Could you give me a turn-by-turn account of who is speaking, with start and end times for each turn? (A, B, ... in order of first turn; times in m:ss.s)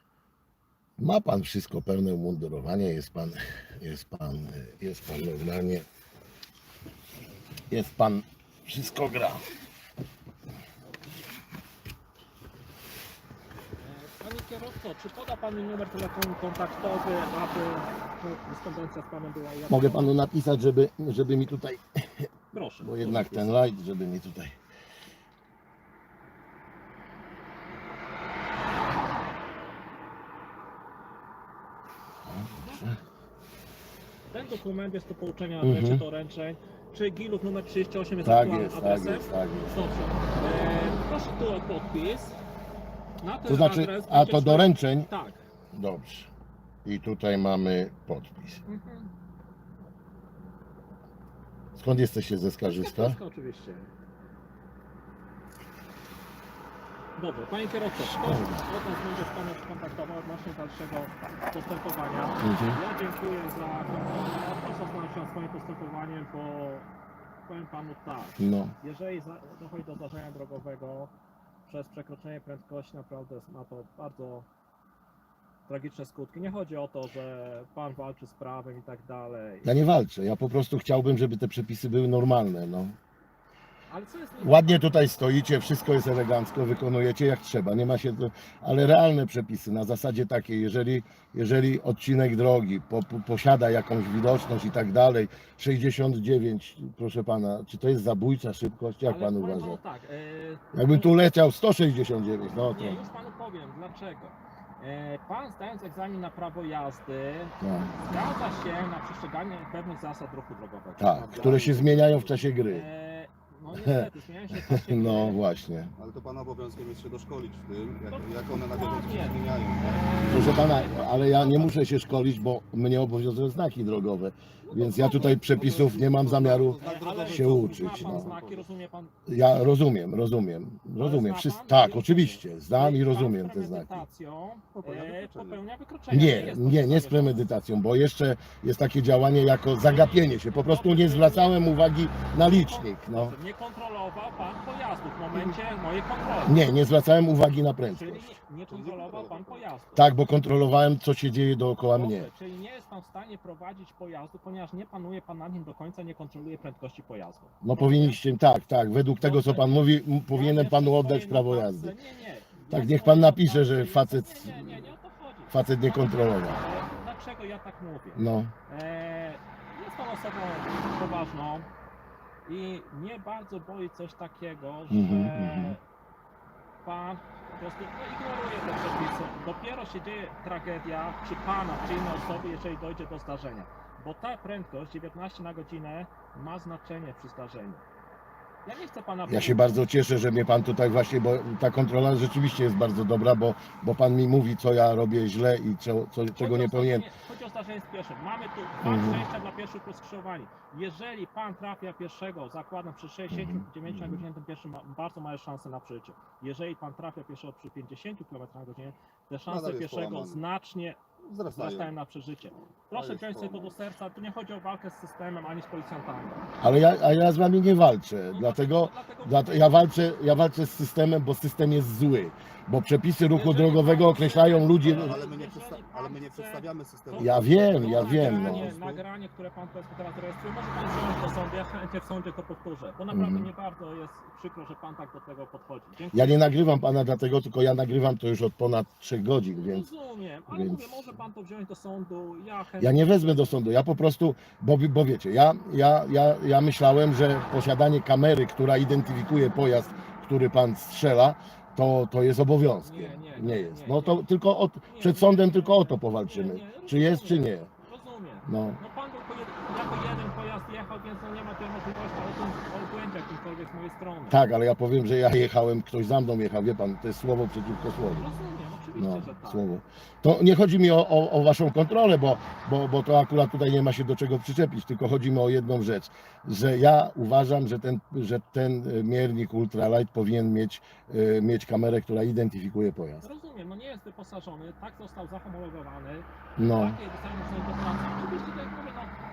0:01.0-0:05.8 A
0:07.7-0:09.5 A
0:13.8-0:20.1 B
0:19.7-0:22.3 A
0:22.5-0:23.6 B
0:22.8-0:24.5 A
0:32.2-0:33.0 A
0:34.3-0:42.4 B
0:35.6-0:36.0 A
0:38.2-0:39.8 A
0:43.2-0:45.4 B
0:43.5-0:45.1 A
0:45.7-0:46.3 A
0:46.8-0:48.6 A
0:48.6-0:49.1 B
0:51.8-0:53.2 A
0:52.6-0:53.9 B
0:57.2-1:06.9 B
0:58.0-0:58.6 A
1:02.4-1:02.8 A
1:07.5-1:11.1 B
1:08.4-1:08.7 A
1:11.7-1:14.5 B
1:15.7-1:19.8 B
1:19.6-1:23.0 A
1:23.9-1:25.0 B
1:24.4-1:39.8 A
1:39.1-1:41.1 B
1:40.7-1:43.0 A
1:42.6-1:51.6 B
1:47.6-1:48.0 A
1:51.0-1:52.9 A
1:51.1-1:52.4 C
1:52.7-1:55.4 B
1:53.7-1:55.9 A
1:56.0-2:00.2 C
1:58.1-2:01.7 B
2:00.3-2:08.3 A
2:04.6-2:05.9 B
2:04.9-2:08.6 C
2:06.8-2:09.1 B
2:09.3-2:14.0 A
2:11.0-2:17.5 B
2:14.7-2:15.6 C
2:16.1-2:23.4 A
2:19.9-2:21.6 B
2:22.4-2:26.6 B
2:26.4-2:28.4 A
2:27.9-2:30.1 B
2:28.7-2:29.7 C
2:29.9-2:32.3 A
2:31.9-2:38.2 B
2:37.6-2:41.9 A
2:39.2-2:51.7 B
2:42.7-2:44.9 A
2:45.5-2:46.6 A
2:48.1-2:48.5 A
2:52.4-2:55.8 B
2:54.9-2:55.8 A
2:56.8-3:07.8 B
3:08.6-3:09.7 B
3:09.3-3:17.1 A
3:16.3-3:36.4 B
3:18.8-3:19.2 A
3:23.3-3:24.2 A
3:29.4-3:30.4 C
3:31.2-3:31.9 C
3:32.9-3:33.8 C
3:36.6-3:45.2 A
3:38.3-3:39.9 B
3:43.3-3:56.6 B
3:44.8-3:49.0 C
3:47.2-3:48.8 A
3:53.1-3:53.5 A
3:56.1-3:59.9 A
3:59.6-4:03.6 B
4:00.5-4:01.2 A
4:02.8-4:17.7 A
4:12.8-4:14.3 B
4:14.9-4:24.4 B
4:18.4-4:18.8 A
4:24.3-4:28.3 A
4:28.1-4:29.6 B
4:28.9-4:43.2 A
4:43.2-4:49.1 B
4:46.6-4:47.0 A